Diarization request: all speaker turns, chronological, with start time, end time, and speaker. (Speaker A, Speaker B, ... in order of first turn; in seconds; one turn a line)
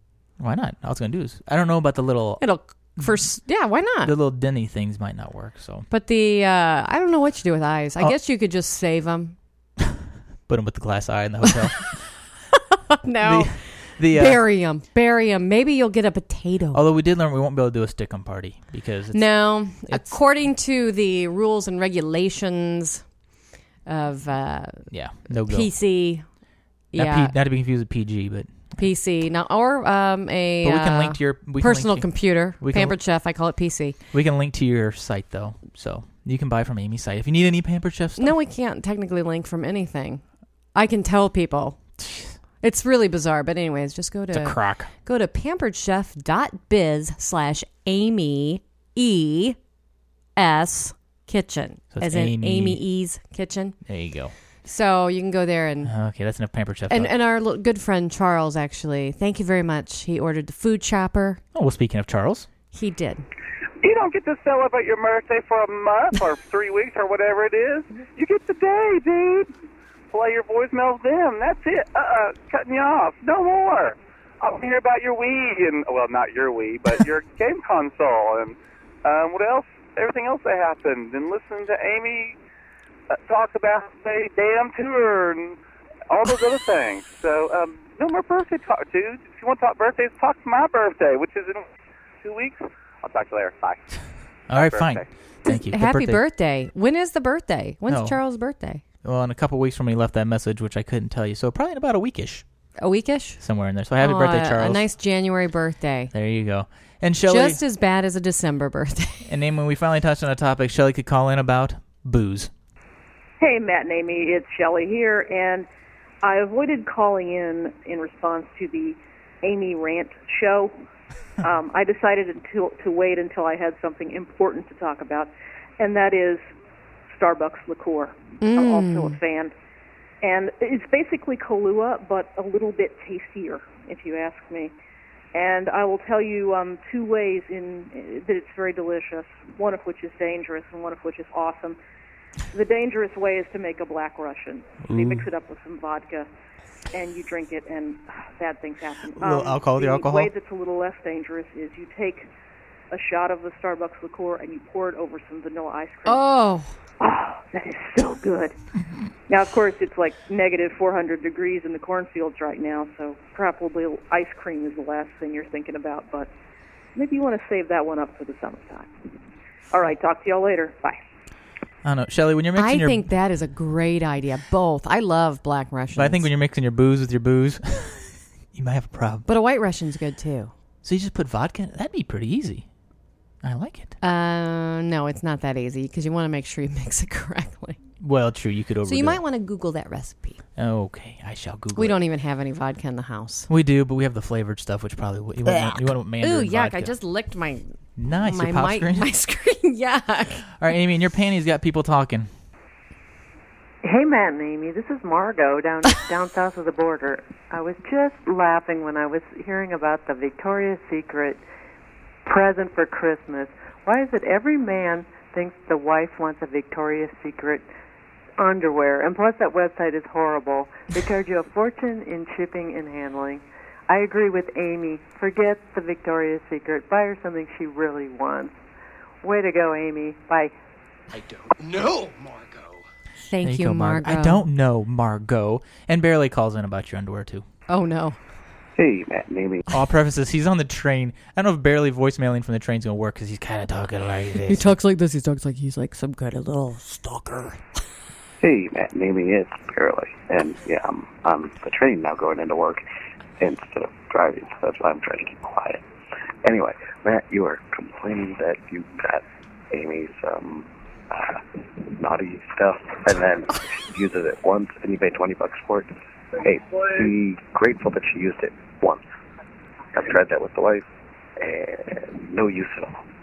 Speaker A: 0.4-2.5
Speaker B: 2.4-4.1
Speaker A: 4.0-5.9
Speaker B: 5.9-9.4
Speaker A: 9.8-12.0
Speaker B: 13.0-16.8
Speaker A: 13.2-14.4
Speaker A: 16.7-19.3
Speaker B: 19.1-23.0
Speaker A: 19.9-20.2
Speaker B: 23.9-26.2
Speaker A: 24.9-25.7
Speaker B: 26.9-27.3
Speaker A: 26.9-28.8
Speaker B: 28.8-34.0
Speaker A: 30.6-32.1
Speaker A: 32.6-33.0
Speaker A: 34.1-38.4
Speaker B: 38.2-40.2
Speaker B: 40.8-41.8
Speaker A: 42.0-42.4
Speaker B: 42.6-49.6
Speaker A: 44.3-44.9
Speaker B: 50.4-53.8
Speaker A: 51.9-52.8
Speaker A: 53.9-54.3
Speaker B: 54.6-55.9
Speaker A: 55.9-57.1
Speaker B: 56.9-61.4
Speaker A: 61.5-62.5
Speaker B: 62.7-63.3
Speaker C: 63.8-69.5
Speaker C: 70.1-82.4
Speaker C: 83.1-85.6
Speaker C: 86.1-91.7
Speaker C: 92.2-95.1
Speaker A: 94.5-96.2
Speaker B: 95.5-98.8
Speaker A: 97.9-98.2
Speaker A: 99.0-102.5
Speaker B: 102.8-103.4
Speaker A: 103.4-104.8
Speaker B: 104.0-106.1
Speaker A: 106.1-107.6
Speaker B: 107.3-109.3
Speaker A: 109.3-112.5
Speaker D: 113.4-115.7
Speaker D: 116.2-120.7
Speaker D: 121.4-126.5
Speaker D: 127.1-129.5
Speaker B: 128.4-129.2
Speaker D: 130.2-134.7
Speaker D: 135.3-141.8
Speaker D: 142.5-146.3
Speaker A: 144.9-145.3
Speaker D: 146.9-152.3
Speaker A: 149.2-150.3
Speaker D: 152.9-156.2
Speaker B: 156.1-156.8
Speaker D: 157.0-158.6
Speaker D: 159.3-166.3
Speaker D: 166.9-168.9
Speaker D: 169.7-171.0
Speaker A: 171.8-173.1
Speaker B: 172.6-176.3
Speaker A: 175.9-179.3
Speaker B: 179.3-180.5
Speaker A: 180.8-182.7
Speaker A: 183.4-183.9
Speaker B: 184.0-187.8
Speaker A: 188.0-189.2
Speaker B: 188.9-190.4
Speaker A: 190.6-192.0
Speaker B: 191.8-193.5
Speaker A: 193.5-196.9
Speaker B: 195.5-200.5
Speaker A: 198.0-199.1
Speaker A: 200.5-202.3
Speaker E: 203.8-211.4
Speaker E: 212.2-217.7
Speaker E: 218.4-228.5
Speaker E: 229.2-230.5
Speaker B: 233.2-234.5
Speaker A: 233.4-237.4
Speaker B: 237.7-238.2
Speaker F: 238.8-239.7
Speaker A: 239.7-244.8
Speaker B: 244.5-247.6
Speaker F: 248.4-252.8
Speaker F: 253.4-255.8
Speaker F: 256.4-269.0
Speaker F: 269.9-270.9
Speaker F: 271.4-273.0